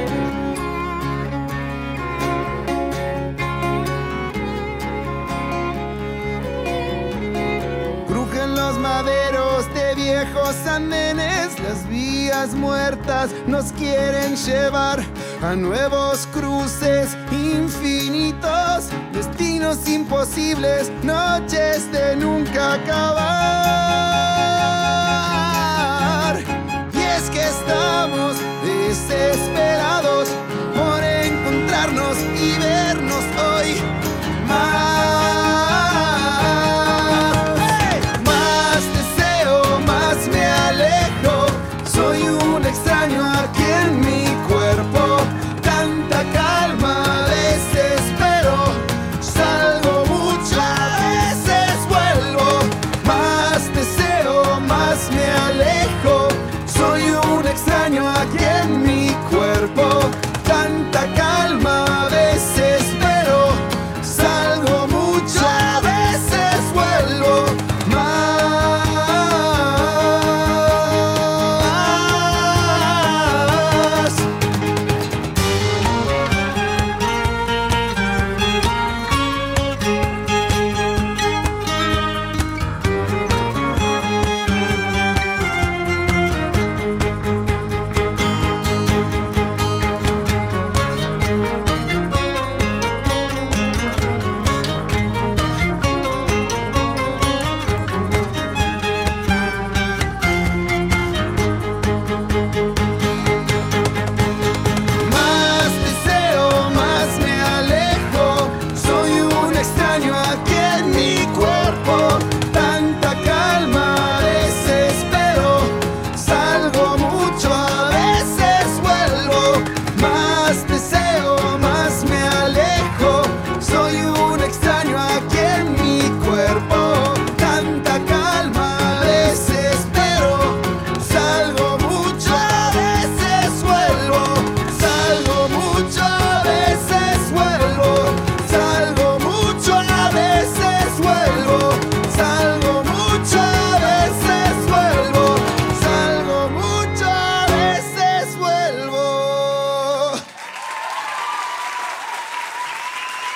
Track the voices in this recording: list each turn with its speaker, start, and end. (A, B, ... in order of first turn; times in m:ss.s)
0:08.1-0:33.9 A
0:34.4-1:14.3 A
1:45.0-2:30.2 A